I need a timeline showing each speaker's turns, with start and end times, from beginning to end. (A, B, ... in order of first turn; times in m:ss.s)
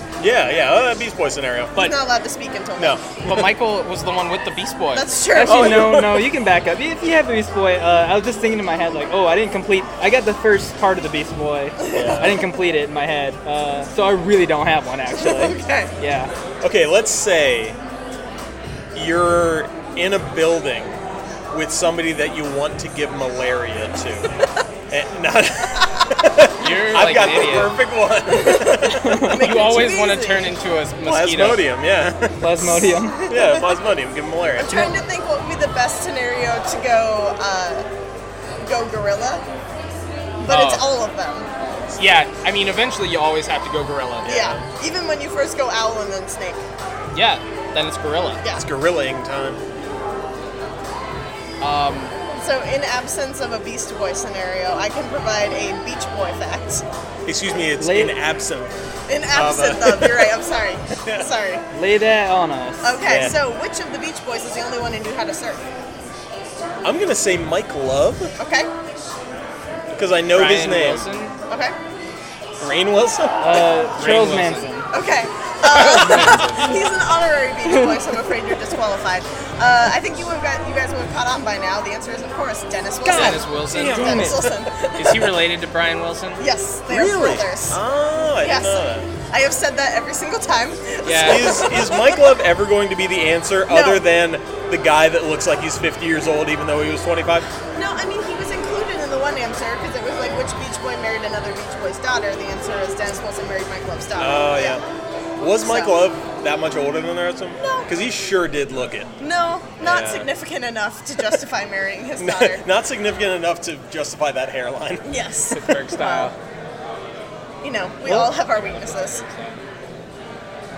0:00.2-0:01.8 A
0:01.8-0:03.0 B
0:02.8-0:03.5 A
0:03.2-0:05.0 C
0:04.9-0:06.0 B
0:05.3-0:16.3 D
0:05.4-0:06.3 A
0:11.8-0:12.4 B
0:11.9-0:12.4 A
0:15.1-0:15.9 B
0:16.6-0:17.8 A
0:18.9-0:21.0 A
0:21.5-0:24.3 A
0:24.9-0:29.3 A
0:26.6-0:27.7 C
0:28.3-0:30.6 B
0:29.0-0:29.5 D
0:29.4-0:31.6 C
0:31.0-0:34.9 A
0:32.4-0:33.2 D
0:33.0-0:33.7 B
0:34.6-0:37.8 B
0:38.6-0:39.4 B
0:40.4-0:41.5 B
0:40.4-0:40.8 C
0:42.0-0:44.4 C
0:44.2-0:44.6 A
0:44.2-0:46.6 B
0:47.1-0:48.4 C
0:48.5-0:49.6 A
0:51.6-0:52.1 C
0:52.3-0:56.8 B
0:57.2-0:58.7 A
0:57.8-0:58.1 D
0:59.1-1:01.6 B
0:59.3-1:00.3 A
1:01.0-1:01.3 A
1:01.7-1:02.9 D
1:02.8-1:05.6 B
1:03.0-1:03.4 A
1:06.8-1:08.3 A
1:08.4-1:08.7 B
1:09.9-1:11.0 A
1:10.3-1:11.3 C
1:11.5-1:11.7 B
1:12.6-1:13.7 A
1:13.4-1:14.9 D
1:14.0-1:14.7 C
1:14.9-1:25.4 B
1:15.7-1:16.8 C
1:15.7-1:16.2 A
1:16.2-1:16.7 D
1:17.7-1:18.0 D
1:23.0-1:24.5 D
1:23.1-1:24.3 C
1:24.9-1:26.4 C
1:26.4-1:27.8 B
1:26.9-1:29.1 A
1:28.4-1:32.4 B
1:31.0-1:31.6 C
1:31.2-1:37.5 A
1:33.7-1:34.0 B
1:37.7-1:44.8 B
1:44.2-1:44.8 A
1:45.4-1:49.1 A
1:45.6-1:45.9 B
1:47.6-1:47.9 B
1:49.2-1:52.6 B
1:49.8-1:50.3 A
1:52.2-1:55.0 A
1:55.0-1:56.3 B
1:55.5-1:56.3 C
1:57.6-1:59.2 B
1:58.5-1:59.6 C